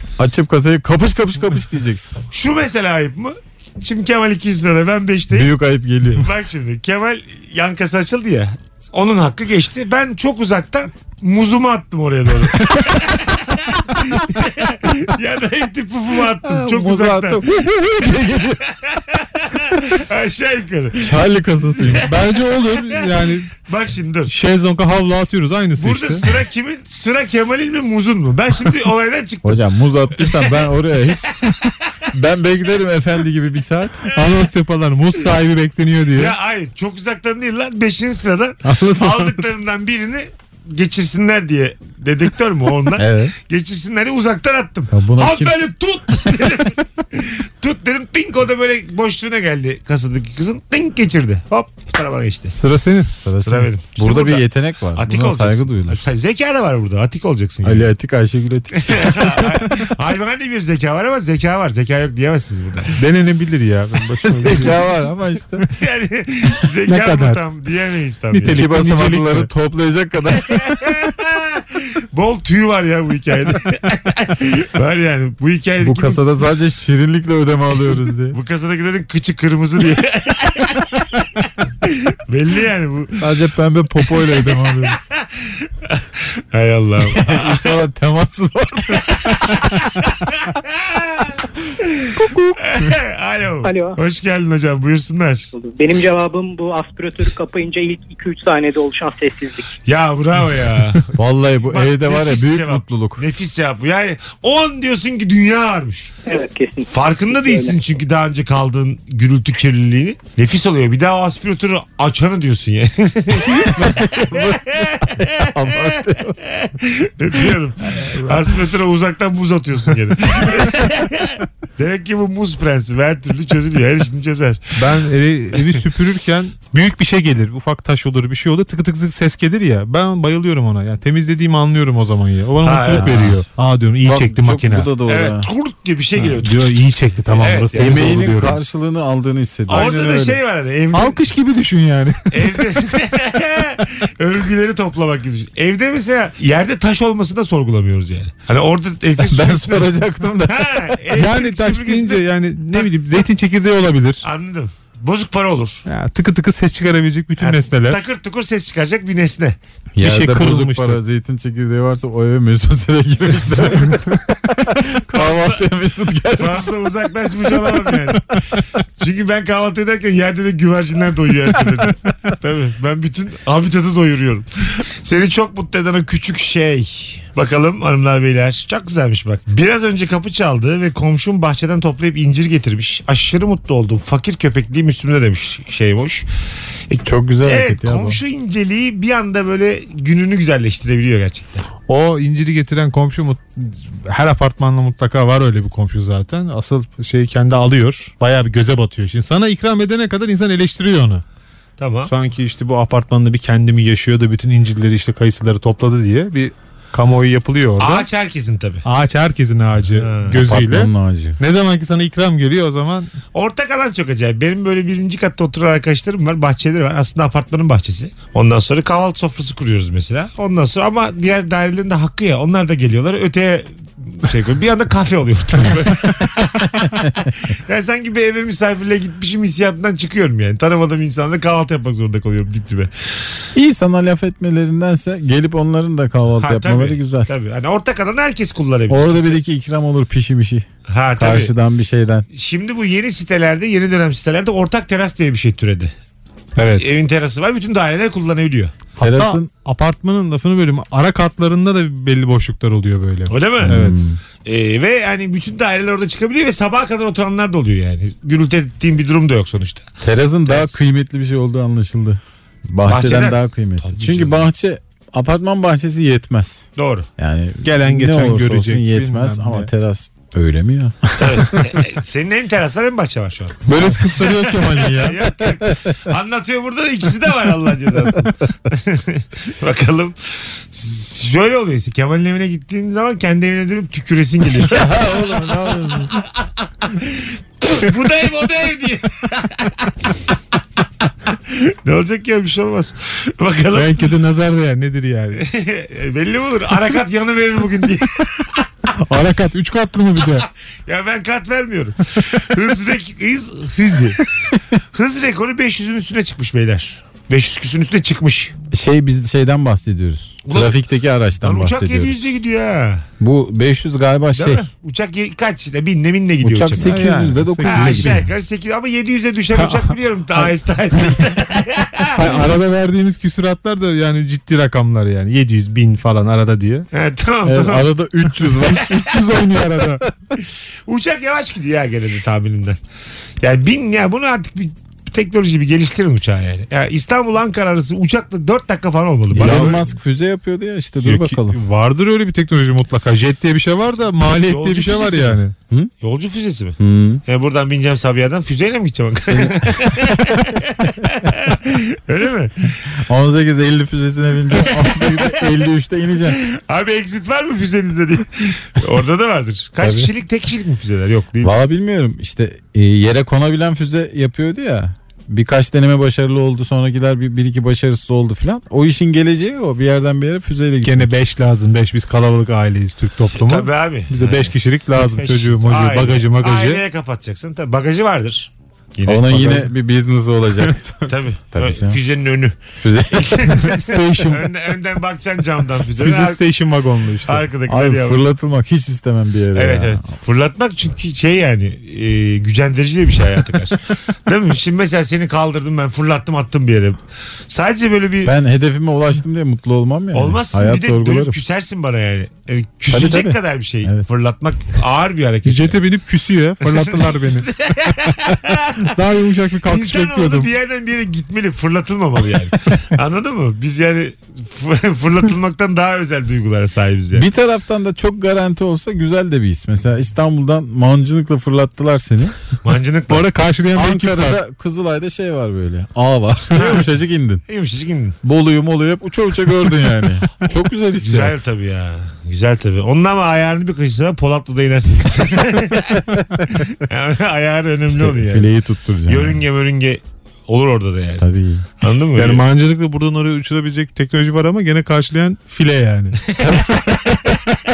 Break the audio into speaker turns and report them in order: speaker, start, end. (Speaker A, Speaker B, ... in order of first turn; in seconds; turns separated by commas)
Speaker A: 0.2-2.1, Speaker B: 2.3-5.5, Speaker A: 5.3-6.2, Speaker B: 6.1-17.4, Speaker A: 16.4-18.6, Speaker B: 18.7-21.1, Speaker A: 21.0-22.1, Speaker C: 22.0-23.5, Speaker B: 22.7-24.3, Speaker C: 24.3-26.3, Speaker B: 25.8-29.6, Speaker A: 29.4-31.4, Speaker B: 30.2-30.5, Speaker A: 32.1-34.0, Speaker B: 34.1-34.3, Speaker C: 34.1-36.3, Speaker B: 36.1-52.5, Speaker C: 38.6-39.5, Speaker A: 43.0-43.3, Speaker A: 44.9-45.6, Speaker C: 52.5-53.1, Speaker A: 53.2-56.1, Speaker B: 53.4-57.9, Speaker A: 57.6-59.8, Speaker B: 58.7-63.0, Speaker C: 63.0-64.8, Speaker A: 64.2-65.7, Speaker B: 65.7-68.6, Speaker C: 66.8-67.4, Speaker C: 68.3-69.5, Speaker A: 68.5-70.9, Speaker B: 70.4-76.2, Speaker A: 75.8-78.4, Speaker B: 78.3-81.1, Speaker B: 81.8-83.2, Speaker A: 83.2-85.0, Speaker B: 84.2-87.8, Speaker A: 87.0-89.7, Speaker B: 89.1-92.1, Speaker A: 92.1-92.9, Speaker B: 92.6-95.5, Speaker D: 93.6-94.0, Speaker D: 95.5-99.7, Speaker B: 99.8-106.1, Speaker A: 101.2-103.2, Speaker D: 106.2-107.8, Speaker B: 106.9-124.6, Speaker A: 113.5-116.4, Speaker C: 124.7-134.9, Speaker B: 132.6-133.4, Speaker A: 132.9-133.4, Speaker A: 134.0-135.5, Speaker B: 135.1-138.2, Speaker C: 136.2-138.6, Speaker A: 137.7-140.4, Speaker B: 139.7-141.2, Speaker C: 139.7-140.4, Speaker C: 140.9-142.7, Speaker B: 142.3-149.9, Speaker A: 149.2-151.0, Speaker B: 150.5-152.9, Speaker C: 151.1-154.2, Speaker B: 154.2-155.8, Speaker C: 155.9-158.0, Speaker B: 157.4-159.6, Speaker A: 159.9-166.7, Speaker C: 160.0-161.0, Speaker B: 165.1-165.6, Speaker B: 166.3-168.3, Speaker C: 168.4-168.6, Speaker B: 169.0-186.2, Speaker B: 186.9-191.7, Speaker A: 187.0-188.2, Speaker C: 191.9-201.2, Speaker B: 201.8-202.1, Speaker C: 202.1-208.1, Speaker B: 207.8-208.8, Speaker C: 208.8-213.1, Speaker B: 210.0-210.4, Speaker A: 210.3-211.4, Speaker B: 213.3-232.9, Speaker A: 233.5-237.3, Speaker B: 236.4-239.4, Speaker A: 238.9-242.2, Speaker B: 240.9-241.5, Speaker B: 242.3-245.9, Speaker C: 246.6-247.0, Speaker B: 246.8-248.8, Speaker C: 248.9-254.0, Speaker A: 249.0-249.5, Speaker B: 253.3-259.9, Speaker A: 253.6-254.2, Speaker A: 260.0-266.6, Speaker B: 260.4-260.8, Speaker B: 262.9-264.5, Speaker B: 266.8-267.1, Speaker A: 267.2-271.8, Speaker C: 267.6-269.7, Speaker B: 271.2-273.6, Speaker A: 273.7-275.8, Speaker C: 273.7-275.1, Speaker B: 274.2-290.1, Speaker A: 284.6-286.2, Speaker B: 291.3-294.1, Speaker C: 293.7-295.4, Speaker B: 295.4-298.6, Speaker C: 299.0-300.5, Speaker B: 300.9-308.5, Speaker A: 308.7-312.3, Speaker B: 310.4-310.8, Speaker B: 311.4-313.0, Speaker A: 313.2-314.7, Speaker B: 314.3-317.0, Speaker A: 316.4-318.3, Speaker C: 316.8-318.2, Speaker B: 317.6-322.4, Speaker C: 319.5-320.5, Speaker C: 322.1-326.9, Speaker B: 326.9-327.9, Speaker A: 327.4-329.8, Speaker C: 328.7-330.0, Speaker B: 330.9-332.8, Speaker B: 333.4-339.8, Speaker A: 339.3-341.6, Speaker C: 339.3-339.8, Speaker C: 341.0-345.5, Speaker B: 344.4-345.4, Speaker B: 346.0-352.7, Speaker A: 346.8-347.2, Speaker A: 353.0-356.4, Speaker B: 354.8-355.3, Speaker B: 356.3-361.5, Speaker A: 359.8-360.1, Speaker A: 361.4-371.1, Speaker C: 370.8-376.8, Speaker B: 373.3-379.7, Speaker A: 379.0-382.0, Speaker B: 381.1-382.6, Speaker A: 382.8-383.9, Speaker B: 383.1-386.4, Speaker C: 383.6-384.5, Speaker C: 386.0-387.4, Speaker B: 387.2-388.2, Speaker A: 387.6-390.1, Speaker B: 389.5-398.3, Speaker A: 398.2-401.4, Speaker B: 400.1-405.8, Speaker A: 402.9-404.1, Speaker C: 405.4-408.3, Speaker B: 406.7-408.9, Speaker C: 408.8-410.5, Speaker B: 409.6-417.3, Speaker A: 417.1-422.4, Speaker B: 422.6-423.3, Speaker C: 423.1-424.4, Speaker A: 423.7-427.4, Speaker B: 426.6-426.9, Speaker B: 427.5-428.2, Speaker A: 428.2-431.4, Speaker B: 431.0-438.5, Speaker A: 437.9-439.4, Speaker B: 439.1-441.2, Speaker A: 441.2-441.6, Speaker B: 441.8-442.4, Speaker C: 442.1-446.2, Speaker B: 446.3-447.0, Speaker A: 446.4-447.3